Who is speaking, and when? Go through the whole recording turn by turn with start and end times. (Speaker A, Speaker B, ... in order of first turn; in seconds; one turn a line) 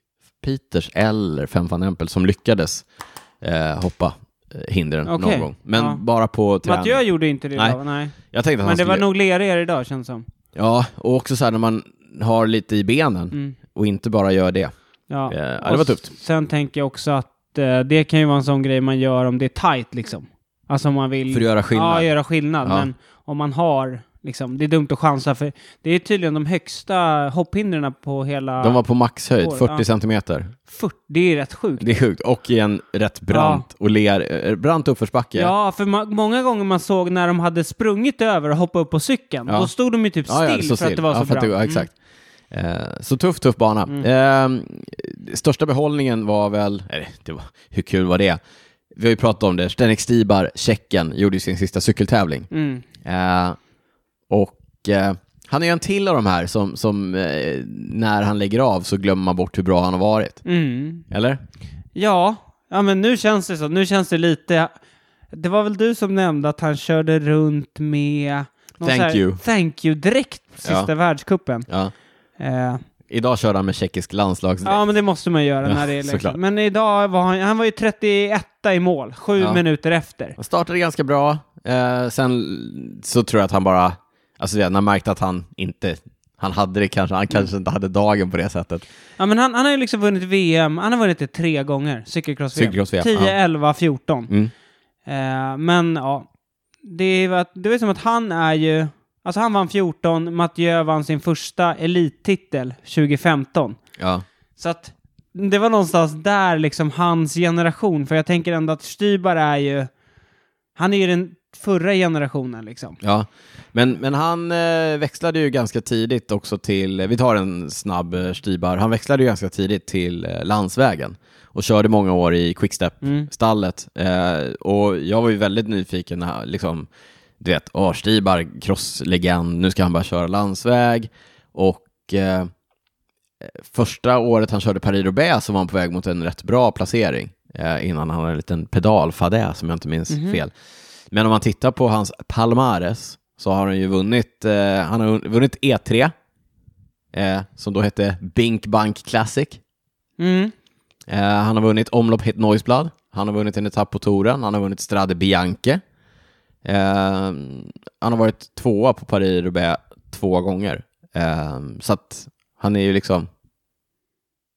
Speaker A: 0.4-2.9
Speaker A: 3.4-7.0
Speaker B: 5.1-6.0
Speaker B: 6.6-10.3
Speaker A: 8.3-9.1
Speaker A: 10.6-14.7
Speaker B: 15.1-28.8
Speaker A: 15.3-16.1
Speaker A: 21.3-22.1
Speaker A: 22.6-22.9
Speaker A: 28.6-30.6
Speaker B: 29.4-29.9
Speaker B: 30.7-32.0
Speaker A: 31.8-35.5
Speaker B: 33.3-33.6
Speaker B: 35.4-41.9
Speaker A: 40.3-41.9
Speaker A: 42.5-48.4
Speaker A: 49.0-52.5
Speaker B: 52.5-52.9
Speaker A: 53.0-53.6
Speaker A: 54.3-60.4
Speaker B: 60.5-61.1
Speaker A: 61.1-61.4
Speaker B: 62.0-64.7
Speaker B: 65.3-71.7
Speaker A: 68.8-69.4
Speaker A: 70.6-70.9
Speaker A: 71.7-71.9
Speaker B: 72.4-72.8
Speaker A: 73.1-74.8
Speaker B: 74.7-80.4
Speaker A: 75.7-76.4
Speaker A: 80.4-88.9
Speaker B: 89.2-94.3
Speaker A: 92.6-93.4
Speaker B: 95.1-96.3
Speaker B: 96.8-103.8
Speaker A: 104.0-104.2
Speaker B: 104.6-109.9
Speaker B: 110.8-113.0
Speaker A: 113.0-126.9
Speaker B: 123.0-123.3
Speaker A: 127.4-132.5
Speaker A: 133.4-140.5
Speaker B: 140.1-140.4
Speaker A: 141.1-146.1
Speaker A: 147.1-149.6
Speaker B: 150.2-150.5
Speaker A: 151.1-155.8
Speaker A: 156.7-163.3